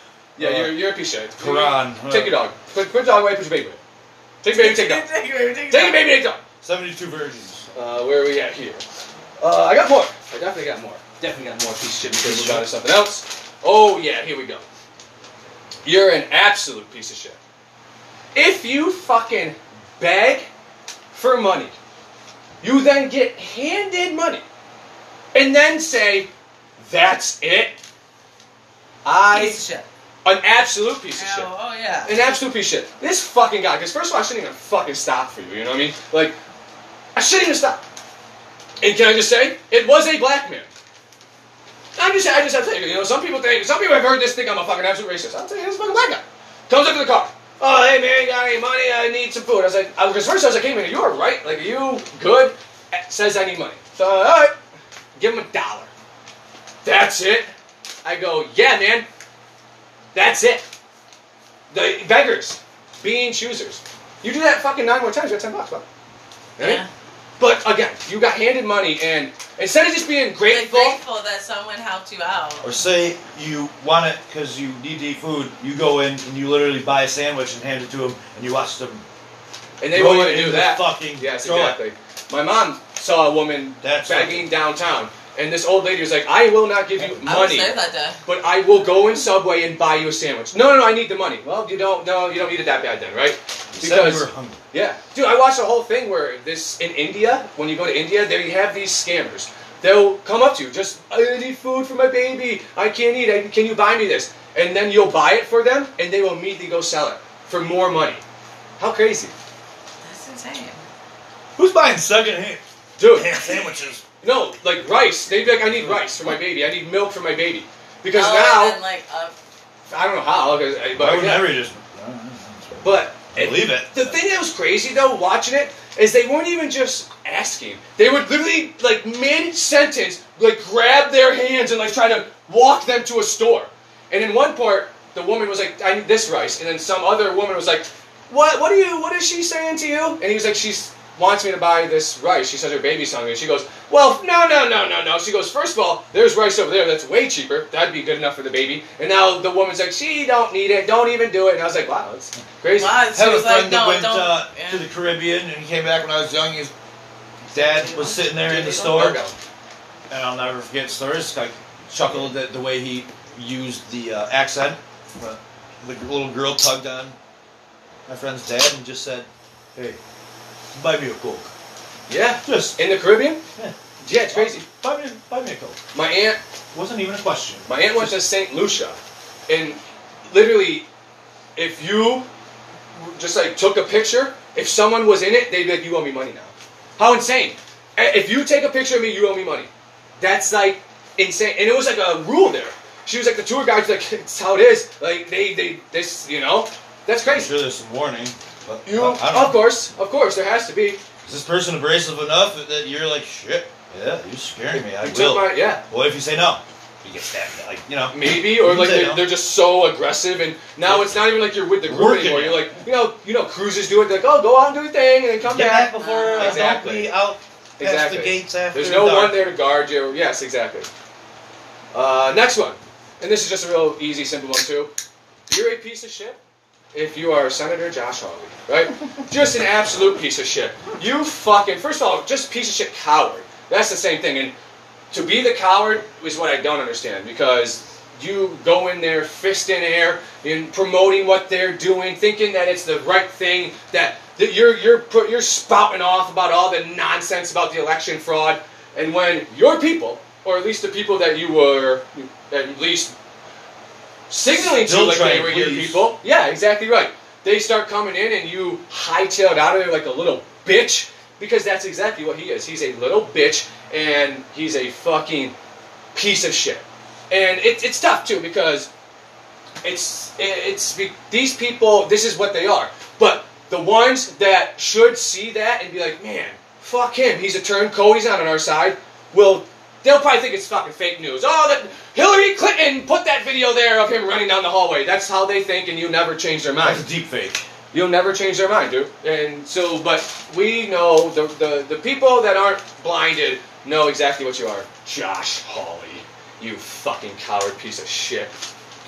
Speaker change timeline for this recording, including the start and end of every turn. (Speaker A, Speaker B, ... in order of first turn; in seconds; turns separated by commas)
Speaker A: 0.3-3.8, Speaker B: 0.4-0.8, Speaker B: 1.4-2.4, Speaker A: 4.4-5.0, Speaker C: 4.6-6.1, Speaker A: 5.7-6.4, Speaker B: 6.6-7.7, Speaker A: 7.7-8.8, Speaker A: 9.4-14.6, Speaker B: 12.1-12.7, Speaker A: 15.8-17.4, Speaker A: 18.3-20.5, Speaker A: 21.1-21.8, Speaker A: 22.6-24.4, Speaker A: 25.3-27.8, Speaker A: 29.0-29.6, Speaker C: 29.3-29.9, Speaker A: 30.2-31.5, Speaker C: 31.2-32.1, Speaker A: 32.0-36.4, Speaker A: 37.1-37.8, Speaker A: 38.8-40.7, Speaker A: 42.0-54.5, Speaker A: 55.2-55.9, Speaker A: 56.8-57.5, Speaker A: 58.0-59.0, Speaker A: 60.1-60.6, Speaker A: 61.7-65.8, Speaker A: 66.6-66.8, Speaker C: 66.6-66.9, Speaker A: 67.4-71.0, Speaker C: 70.5-72.7, Speaker B: 72.6-79.0, Speaker A: 79.8-87.7, Speaker B: 79.9-81.8, Speaker B: 83.8-84.5, Speaker B: 87.0-87.3, Speaker C: 87.2-88.2, Speaker A: 88.2-108.2, Speaker B: 93.7-94.6, Speaker A: 108.8-109.3, Speaker C: 110.0-110.8, Speaker B: 111.5-114.0, Speaker A: 113.0-113.4, Speaker A: 114.2-118.8, Speaker C: 118.1-119.3, Speaker A: 119.9-121.5, Speaker B: 121.0-124.2, Speaker A: 122.8-152.9, Speaker C: 152.8-154.8, Speaker B: 153.1-156.7, Speaker B: 157.5-159.2, Speaker C: 157.5-159.2, Speaker A: 158.6-159.3, Speaker B: 160.1-167.2, Speaker B: 168.1-170.0, Speaker B: 170.7-171.5, Speaker A: 172.1-173.4, Speaker B: 172.4-172.8, Speaker A: 174.0-174.6, Speaker B: 174.3-175.8, Speaker A: 175.9-176.4, Speaker B: 176.7-178.2, Speaker A: 177.7-180.8, Speaker A: 181.6-182.2, Speaker A: 182.9-197.5, Speaker B: 197.3-199.6, Speaker A: 198.8-201.0, Speaker B: 201.2-209.2, Speaker A: 204.7-205.8, Speaker A: 208.1-217.1, Speaker B: 210.8-211.2, Speaker B: 211.8-212.8, Speaker B: 215.4-219.4, Speaker C: 216.0-216.6, Speaker A: 217.8-220.9, Speaker A: 221.9-224.9, Speaker A: 225.5-226.4, Speaker A: 226.9-234.5, Speaker A: 235.1-253.1, Speaker A: 254.3-265.5, Speaker B: 254.5-256.1, Speaker A: 266.1-268.9, Speaker A: 269.8-287.0, Speaker B: 286.8-287.6, Speaker A: 287.9-298.5